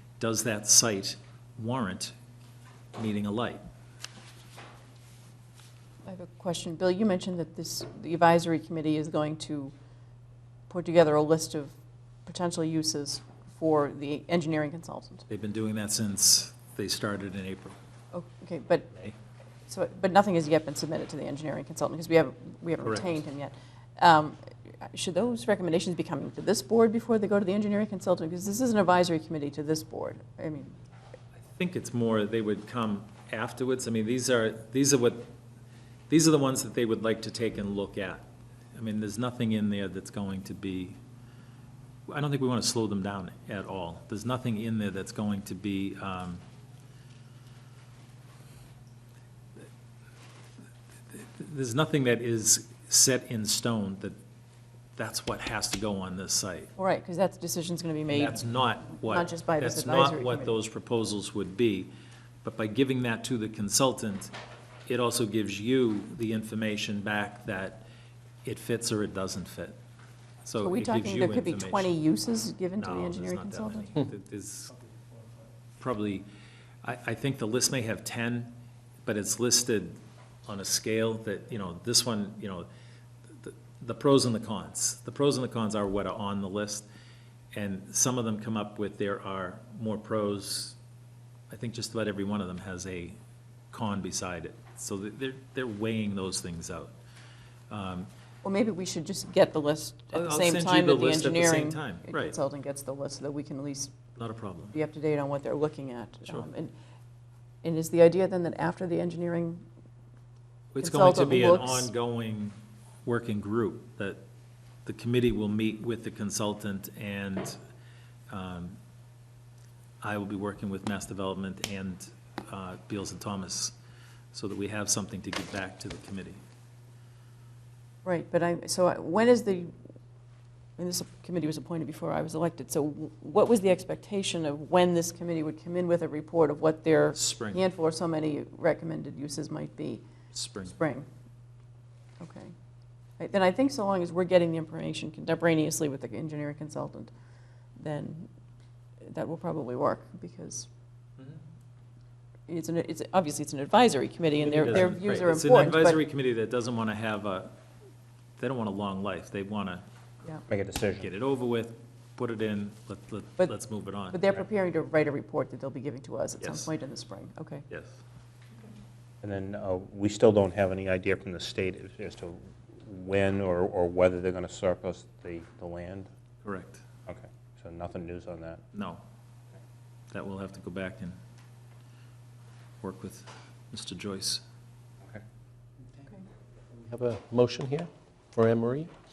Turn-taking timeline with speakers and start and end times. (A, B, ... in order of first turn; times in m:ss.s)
0:00.2-0:02.1 A
0:02.9-0:03.6 A
0:06.0-0:09.7 B
0:10.7-0:11.7 B
0:12.2-0:15.2 B
0:15.3-0:17.8 A
0:18.1-0:18.9 B
0:19.7-0:30.7 B
0:22.8-0:23.2 A
0:31.3-0:35.3 A
0:36.1-0:41.0 A
0:42.1-0:46.4 A
0:51.1-0:54.2 A
0:55.0-0:56.7 A
0:56.8-1:00.6 B
0:58.1-1:01.9 A
1:02.4-1:04.3 A
1:04.9-1:07.8 A
1:08.4-1:09.8 A
1:10.4-1:12.0 A
1:10.6-1:13.9 B
1:12.8-1:14.7 A
1:15.8-1:16.3 A
1:16.8-1:22.7 A
1:23.4-1:26.9 A
1:27.5-1:30.8 A
1:31.5-1:33.2 A
1:33.7-1:36.9 A
1:37.7-1:38.1 A
1:38.4-1:44.0 B
1:40.1-1:42.3 A
1:44.2-1:44.8 A
1:44.7-1:46.7 B
1:47.6-1:49.6 B
1:50.7-1:54.2 A
1:50.8-1:51.9 B
1:54.8-1:57.6 A
1:58.3-1:58.8 A
2:00.0-2:03.7 A
2:04.3-2:06.4 A
2:08.0-2:09.7 B
2:10.8-2:20.0 B
2:17.1-2:17.6 A
2:20.3-2:20.7 A
2:20.6-2:21.0 B
2:22.2-2:22.5 B
2:23.2-2:27.1 B
2:27.8-2:28.3 B
2:29.0-2:30.7 B
2:32.5-2:36.0 B
2:34.4-2:37.6 A
2:38.4-2:39.8 A
2:40.5-2:41.1 C
2:41.0-2:44.3 A
2:44.1-2:47.6 B
2:46.4-2:46.7 A
2:47.7-2:48.0 A
2:49.2-2:56.1 C
2:56.4-2:56.8 A
2:57.1-2:58.6 C
2:58.7-2:59.0 A
3:00.1-3:01.2 A
3:02.8-3:04.4 A
3:06.7-3:08.9 D